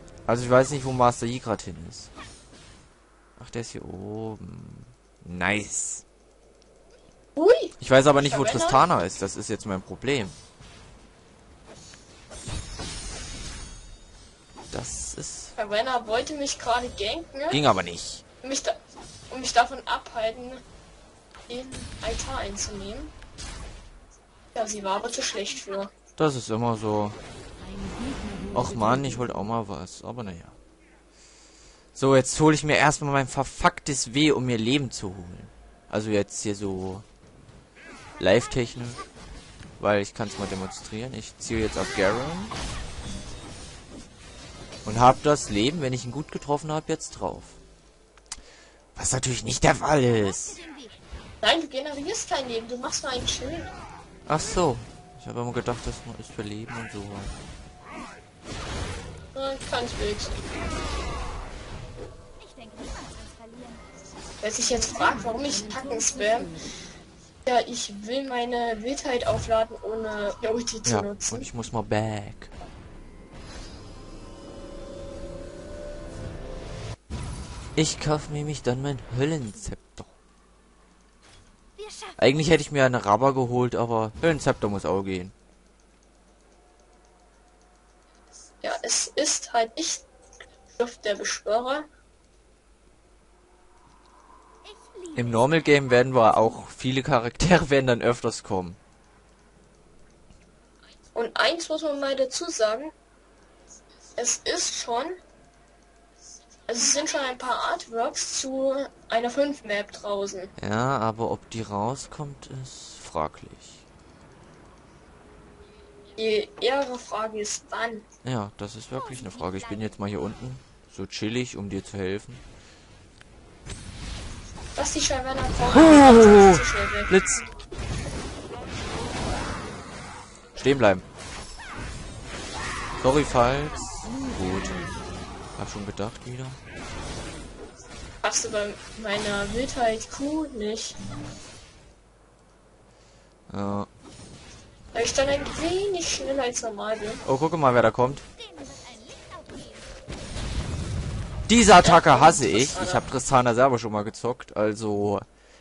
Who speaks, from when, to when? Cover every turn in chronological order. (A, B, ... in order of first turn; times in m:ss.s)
0:00.3-0:02.1 A
0:03.4-0:06.0 A
0:07.4-0:08.8 B
0:07.8-0:10.4 A
0:14.7-0:15.5 A
0:15.6-0:17.6 B
0:17.5-0:18.2 A
0:18.4-0:20.6 B
0:21.5-0:23.1 B
0:24.5-0:25.9 B
0:26.2-0:27.2 A
0:28.5-0:30.6 A
0:32.0-0:37.0 A
0:38.2-0:39.0 A
0:38.2-0:39.0 C
0:39.8-0:42.5 A
0:44.9-0:47.6 A
0:49.0-0:50.6 A
0:50.1-0:51.0 C
0:51.4-0:53.7 B
0:54.3-0:57.4 A
0:59.4-1:00.5 B
1:02.4-1:03.8 C
1:04.4-1:06.5 B
1:07.5-1:11.5 B
1:10.9-1:12.5 A
1:17.8-1:20.1 A
1:21.8-1:22.2 C
1:22.2-1:25.3 A
1:28.6-1:30.0 B
1:30.8-1:31.9 B
1:34.6-1:36.5 C
1:35.2-1:38.8 A
1:41.1-1:42.9 B
1:44.2-1:45.2 B
1:46.7-1:50.5 B
1:50.6-1:53.8 A
1:56.2-1:58.0 B
1:58.2-2:02.4 A
1:58.9-2:00.0 C
2:04.8-2:07.1 B
2:05.7-2:07.4 A
2:10.6-2:11.0 A
2:13.0-2:14.8 A
2:15.6-2:16.6 A
2:18.2-2:21.0 B
2:23.5-2:23.9 A
2:24.9-2:27.2 B
2:27.2-2:28.2 A
2:28.4-2:29.9 C
2:31.5-2:35.2 A
2:31.8-2:33.0 B